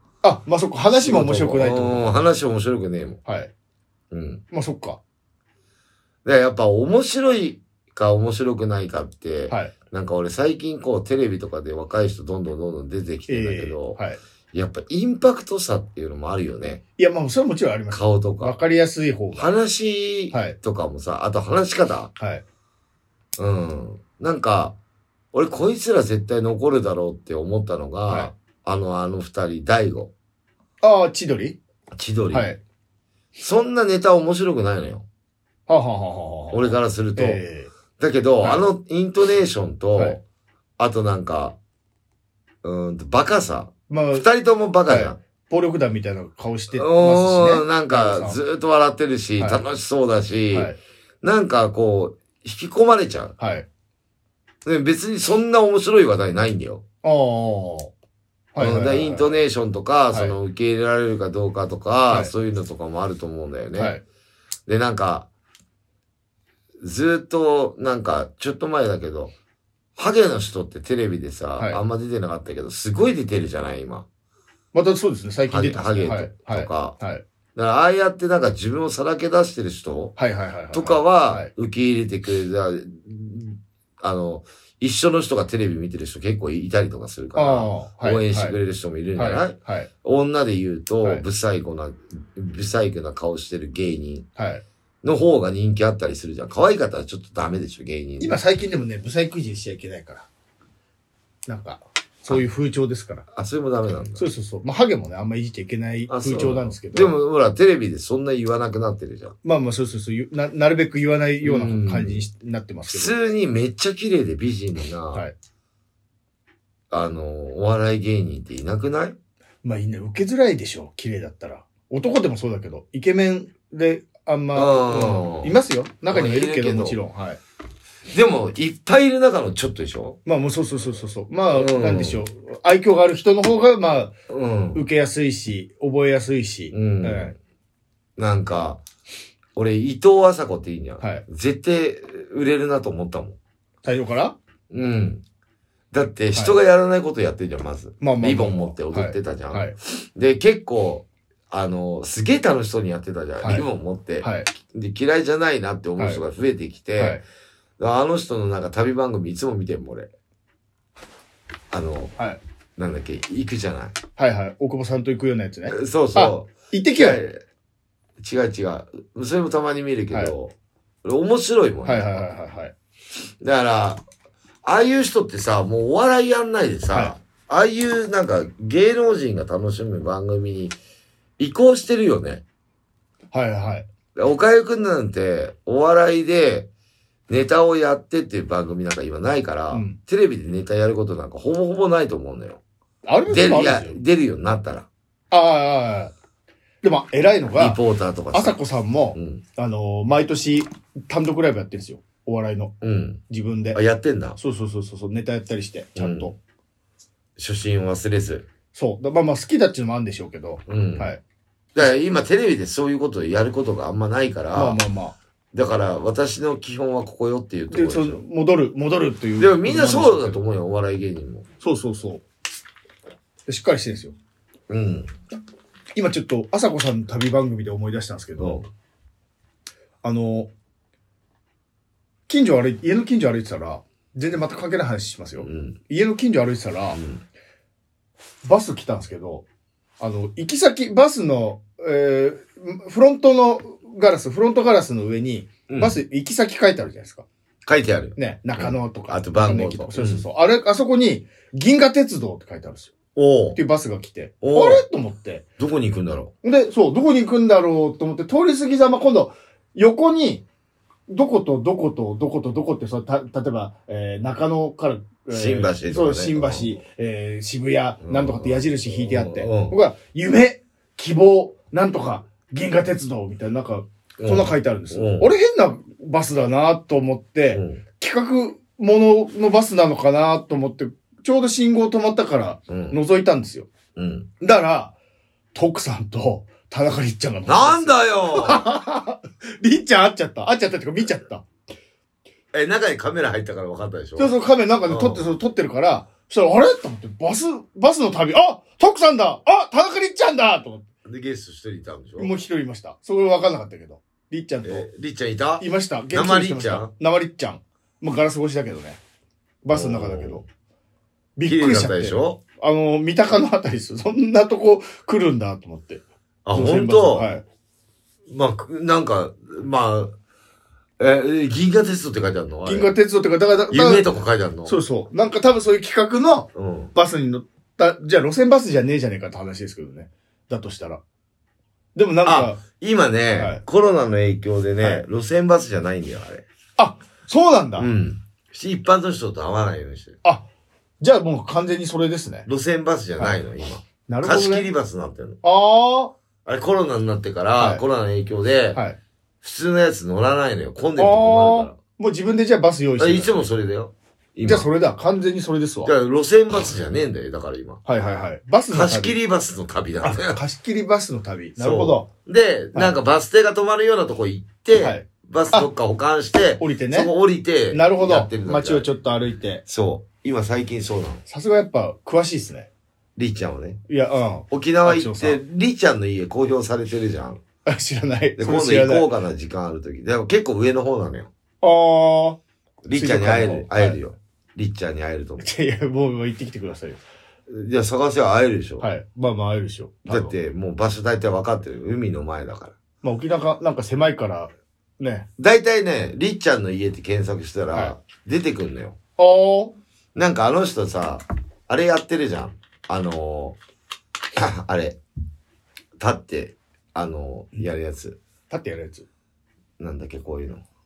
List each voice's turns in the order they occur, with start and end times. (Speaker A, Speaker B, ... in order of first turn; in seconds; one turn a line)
Speaker A: 0.2-2.1
Speaker B: 0.9-3.2
Speaker A: 3.2-3.5
Speaker B: 4.1-4.4
Speaker A: 4.5-5.0
Speaker B: 6.2-14.0
Speaker A: 13.3-14.2
Speaker B: 14.5-16.8
Speaker A: 17.0-19.5
Speaker B: 17.9-18.5
Speaker B: 19.4-22.1
Speaker A: 20.3-20.6
Speaker A: 22.2-22.4
Speaker B: 23.4-24.8
Speaker B: 25.3-30.1
Speaker A: 30.8-31.6
Speaker B: 31.9-32.5
Speaker A: 32.3-32.6
Speaker B: 33.4-35.0
Speaker A: 35.7-37.7
Speaker B: 36.5-37.4
Speaker B: 38.0-40.2
Speaker A: 38.4-38.7
Speaker B: 40.8-41.6
Speaker B: 42.6-45.2
Speaker A: 43.9-44.3
Speaker A: 44.9-48.4
Speaker B: 46.8-53.4
Speaker A: 53.4-53.6
Speaker B: 54.6-56.8
Speaker A: 57.0-57.9
Speaker A: 58.5-59.4
Speaker B: 58.6-64.0
Speaker A: 63.8-64.0
Speaker B: 64.7-65.3
Speaker B: 66.8-69.3
Speaker B: 70.0-74.0
Speaker A: 74.7-77.2
Speaker B: 75.5-77.0
Speaker B: 77.5-80.2
Speaker A: 80.2-81.5
Speaker B: 80.7-94.2
Speaker A: 87.3-88.6
Speaker A: 89.2-89.9
Speaker A: 94.4-94.6
Speaker B: 95.0-98.4
Speaker A: 98.2-100.3
Speaker A: 101.5-103.3
Speaker B: 103.3-104.2
Speaker A: 104.2-107.2
Speaker B: 106.1-109.3
Speaker A: 109.4-113.1
Speaker B: 111.4-112.2
Speaker B: 112.9-115.2
Speaker B: 116.9-119.2
Speaker A: 119.6-127.4
Speaker B: 124.5-125.5
Speaker B: 126.1-127.0
Speaker B: 128.1-130.2
Speaker A: 130.2-134.1
Speaker B: 131.5-132.2
Speaker B: 134.3-134.8
Speaker A: 134.7-137.3
Speaker B: 136.7-137.3
Speaker B: 138.2-138.8
Speaker B: 139.5-143.4
Speaker A: 143.8-144.3
Speaker B: 144.7-145.2
Speaker B: 145.9-157.2
Speaker A: 148.0-149.7
Speaker A: 153.4-153.7
Speaker A: 154.2-154.5
Speaker A: 157.0-157.2
Speaker B: 157.8-160.1
Speaker B: 161.7-162.1
Speaker B: 162.8-163.9
Speaker A: 164.2-167.2
Speaker B: 165.7-167.4
Speaker B: 168.2-172.2
Speaker A: 171.8-172.7
Speaker B: 173.4-174.0
Speaker B: 174.6-180.8
Speaker B: 181.4-182.4
Speaker A: 183.3-183.9
Speaker B: 184.1-186.7
Speaker B: 187.3-192.6
Speaker A: 189.7-190.0
Speaker A: 193.1-193.9
Speaker B: 193.3-194.9
Speaker A: 195.3-196.1
Speaker A: 196.8-197.8
Speaker B: 197.5-198.6
Speaker A: 198.3-202.7
Speaker B: 199.1-199.4
Speaker B: 202.8-203.2
Speaker A: 203.3-203.8
Speaker B: 203.7-204.4
Speaker A: 204.4-206.3
Speaker B: 206.0-206.3
Speaker B: 207.4-208.4
Speaker A: 208.7-211.2
Speaker B: 210.7-211.1
Speaker B: 211.7-214.8
Speaker A: 214.5-215.2
Speaker B: 215.5-218.2
Speaker A: 217.7-220.4
Speaker B: 219.4-221.4
Speaker A: 221.6-222.2
Speaker A: 223.5-224.1
Speaker B: 224.7-225.1
Speaker A: 225.9-228.7
Speaker B: 228.4-228.7
Speaker A: 230.0-230.5
Speaker A: 232.3-237.0
Speaker B: 235.4-235.8
Speaker B: 236.9-237.2
Speaker A: 238.4-239.4
Speaker A: 240.0-247.2
Speaker B: 245.7-246.0
Speaker B: 247.6-250.2
Speaker A: 248.2-252.9
Speaker B: 253.1-253.6
Speaker A: 253.5-255.4
Speaker B: 254.4-254.8
Speaker B: 255.6-256.3
Speaker A: 256.4-260.4
Speaker A: 261.1-283.7
Speaker B: 265.3-266.8
Speaker B: 268.0-269.8
Speaker B: 274.2-275.3
Speaker B: 277.5-277.8
Speaker B: 282.7-283.0
Speaker B: 283.9-284.3
Speaker A: 284.4-284.9
Speaker A: 285.5-291.4
Speaker B: 287.4-288.7
Speaker B: 292.5-294.3
Speaker A: 294.2-300.9
Speaker B: 294.9-295.2
Speaker B: 301.0-302.3
Speaker A: 302.2-304.9
Speaker B: 304.6-306.9
Speaker A: 305.6-309.0
Speaker A: 309.6-310.4
Speaker B: 309.7-310.4
Speaker A: 311.4-317.4
Speaker B: 311.4-312.4
Speaker B: 316.4-317.3
Speaker B: 318.3-320.1
Speaker B: 321.0-322.9
Speaker A: 322.6-324.1
Speaker B: 323.7-324.8
Speaker A: 324.6-331.0
Speaker B: 326.5-326.9
Speaker A: 331.9-332.6
Speaker B: 332.2-336.4
Speaker A: 333.4-333.6
Speaker A: 336.8-337.9
Speaker B: 337.8-340.2
Speaker A: 341.0-342.5
Speaker B: 342.5-345.4
Speaker A: 344.1-344.7
Speaker A: 345.4-346.1
Speaker B: 346.4-348.8
Speaker B: 349.4-351.8
Speaker A: 351.0-353.5
Speaker B: 353.0-354.7
Speaker A: 354.4-355.9
Speaker B: 355.8-357.8
Speaker A: 357.9-359.2
Speaker B: 358.7-360.4
Speaker A: 360.0-362.1
Speaker B: 361.6-368.9
Speaker A: 364.8-365.7
Speaker A: 366.6-367.1
Speaker A: 367.7-369.6
Speaker B: 369.6-371.2
Speaker A: 371.3-372.7
Speaker B: 373.1-373.8
Speaker A: 373.9-375.4
Speaker B: 374.5-377.4
Speaker A: 377.6-379.1
Speaker B: 378.4-381.3
Speaker A: 381.6-382.4
Speaker B: 382.8-385.5
Speaker A: 382.9-384.0
Speaker A: 385.4-387.0
Speaker B: 387.5-388.9
Speaker A: 388.8-390.3
Speaker B: 390.1-392.7
Speaker A: 393.0-395.3
Speaker B: 395.4-398.9
Speaker A: 399.2-399.7
Speaker B: 400.1-403.6
Speaker B: 404.3-405.0
Speaker B: 406.0-408.2
Speaker A: 408.5-409.1
Speaker B: 409.8-410.6